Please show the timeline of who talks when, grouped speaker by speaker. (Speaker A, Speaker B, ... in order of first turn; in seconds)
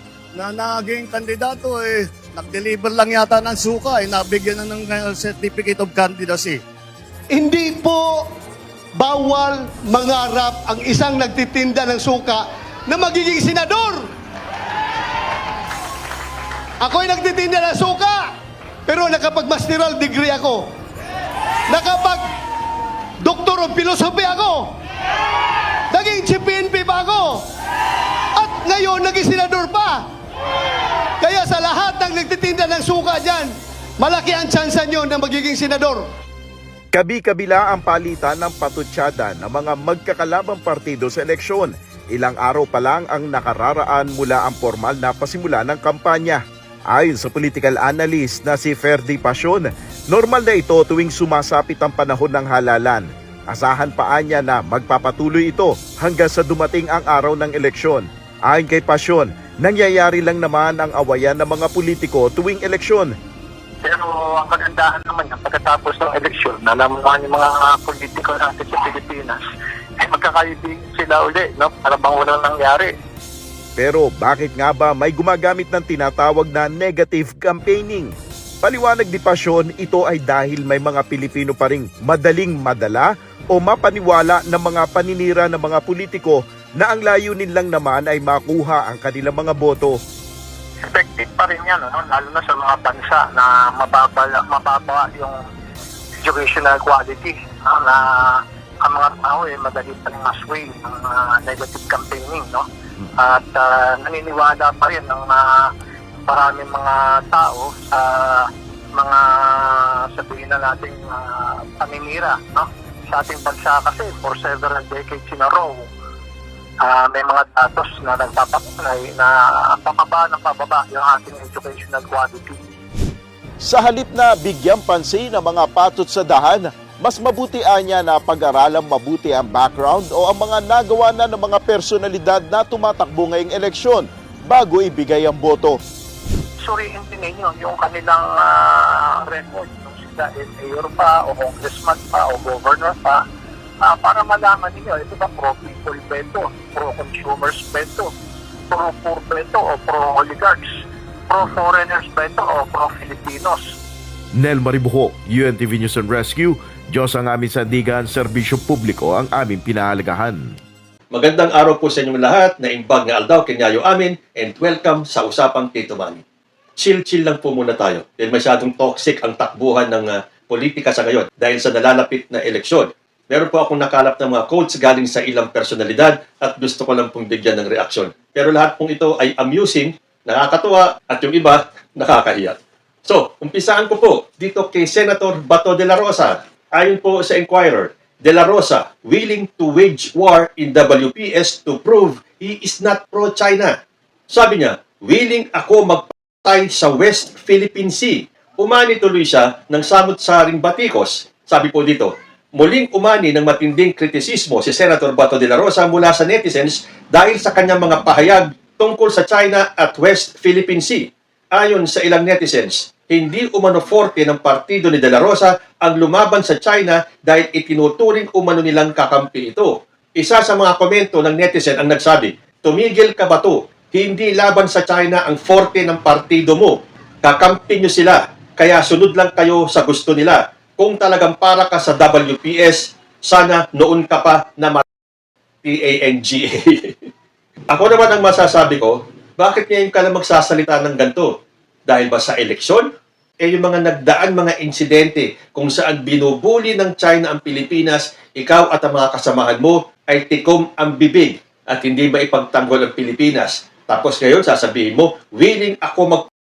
Speaker A: 0.3-6.6
Speaker B: 7.3-8.3, 8.9-14.1, 16.8-18.3, 18.9-20.7, 21.7-22.3, 23.2-24.8, 25.9-27.5, 28.3-30.1, 31.2-36.1
Speaker C: 36.9-63.1, 73.8-78.1, 78.6-90.0, 123.6-135.8, 154.3-160.4
Speaker D: 63.8-69.4, 70.0-72.9, 90.8-95.3, 96.2-102.6, 103.2-105.7, 106.3-115.8, 116.8-122.6, 136.6-143.2, 143.8-148.1, 148.7-150.6, 151.3-153.7
Speaker E: 161.1-166.2, 166.8-193.7, 194.3-234.8, 235.6-236.9, 237.7-242.9, 243.4-256.3